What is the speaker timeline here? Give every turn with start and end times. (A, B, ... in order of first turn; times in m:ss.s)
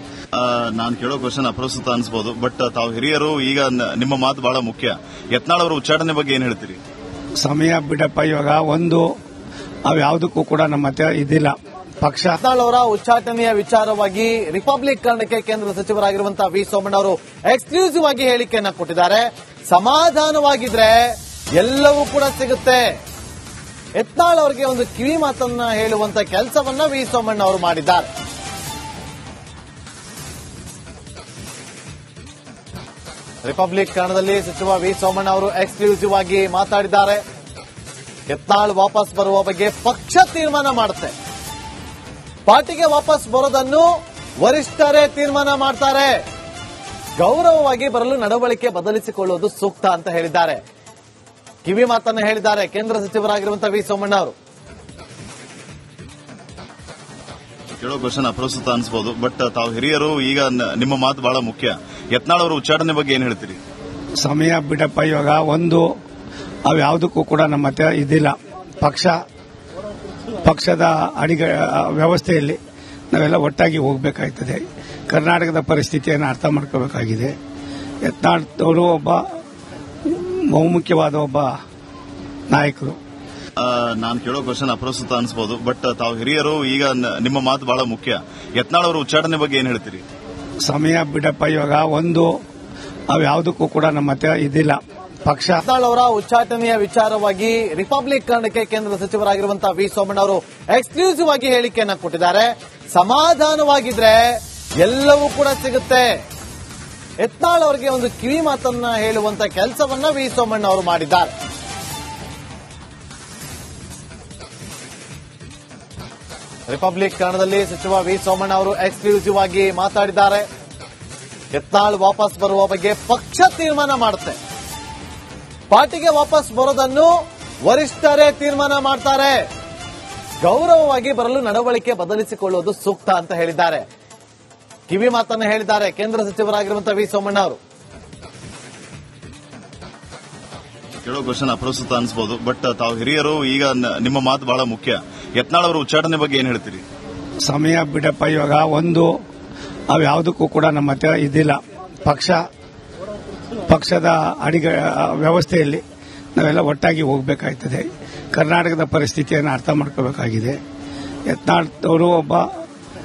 0:00.3-0:06.8 A
0:07.4-0:09.0 B
0:09.8-0:12.4 B
0:12.4-0:22.9 C
0:24.0-0:28.1 C
0:33.4-0:37.2 C
0:38.3-0:41.1 C
0:42.5-0:43.9 C
0:44.4-0:46.2 C
0:47.2-0:50.6 C
0:51.6-0:54.3 C
0:57.8-1:03.6 A
1:04.2-1:05.8 B
1:06.6-1:09.2 B
1:10.4-1:12.6 B
1:13.1-1:17.3 B
1:18.0-1:19.2 B
1:20.0-1:21.5 B
1:22.5-1:23.0 B
1:23.6-1:30.0 A
1:30.6-1:32.3 B
1:33.1-1:35.6 B
1:35.6-1:46.2 C
1:47.2-1:51.3 C
1:56.7-2:00.4 C
2:01.5-2:04.4 C
2:05.7-2:07.1 C
2:07.6-2:09.5 C
2:10.4-2:13.8 C
2:14.9-2:17.6 C
2:21.0-2:26.8 A
2:27.4-2:29.1 B
2:29.9-2:32.4 B
2:33.7-2:35.8 B
2:36.3-2:40.6 B
2:41.3-2:42.5 B